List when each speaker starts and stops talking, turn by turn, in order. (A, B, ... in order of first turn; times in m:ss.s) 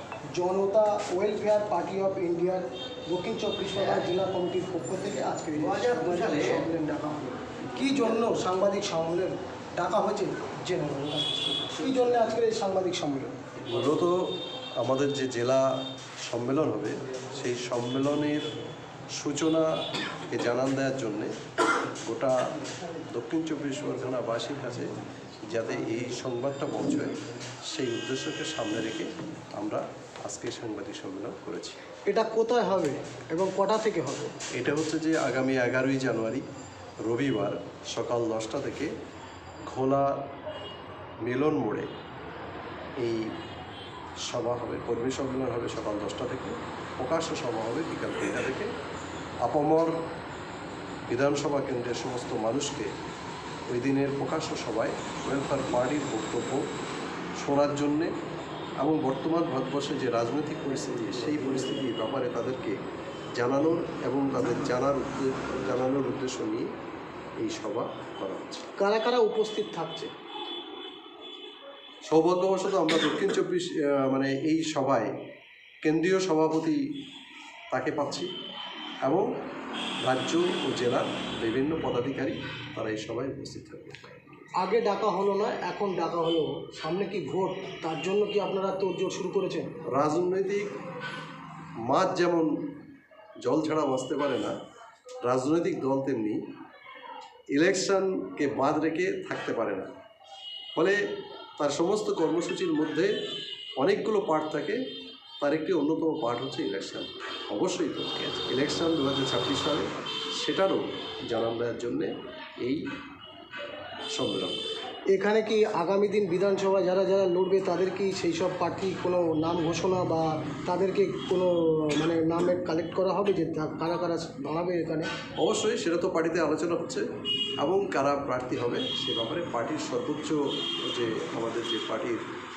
0:00.3-0:13.3 A
0:13.6-0:18.5 B
0:19.2-0:19.7 B
0:20.3-0:21.3 B
0:22.1-0:22.5 B
0:23.1-0:27.2 B
0:27.7-0:31.8 B
0:32.1-0:34.3 A
0:34.6-0:36.4 B
0:37.0-0:38.9 B
0:39.7-0:40.2 B
0:41.2-0:41.9 B
0:43.0-0:43.3 B
0:44.3-0:48.7 B
0:49.4-0:50.0 B
0:51.1-0:52.9 B
0:53.7-0:56.6 B
0:57.4-0:58.1 B
0:58.8-1:02.8 B
1:03.4-1:06.7 B
1:07.4-1:08.7 B
1:08.8-1:10.1 A
1:12.1-1:15.1 B
1:15.8-1:16.8 B
1:17.7-1:18.3 B
1:20.0-1:24.0 B
1:24.6-1:29.7 A
1:29.9-1:30.7 B
1:31.9-1:32.5 B
1:33.4-1:34.5 B
1:35.3-1:36.4 B
1:37.5-1:39.9 B
1:41.6-1:43.1 B
1:43.8-1:44.8 B
1:45.4-1:49.9 B
1:50.4-1:52.8 B
1:54.1-1:54.7 B
1:55.1-2:05.1 A
2:05.4-2:07.0 B
2:07.6-2:12.2 B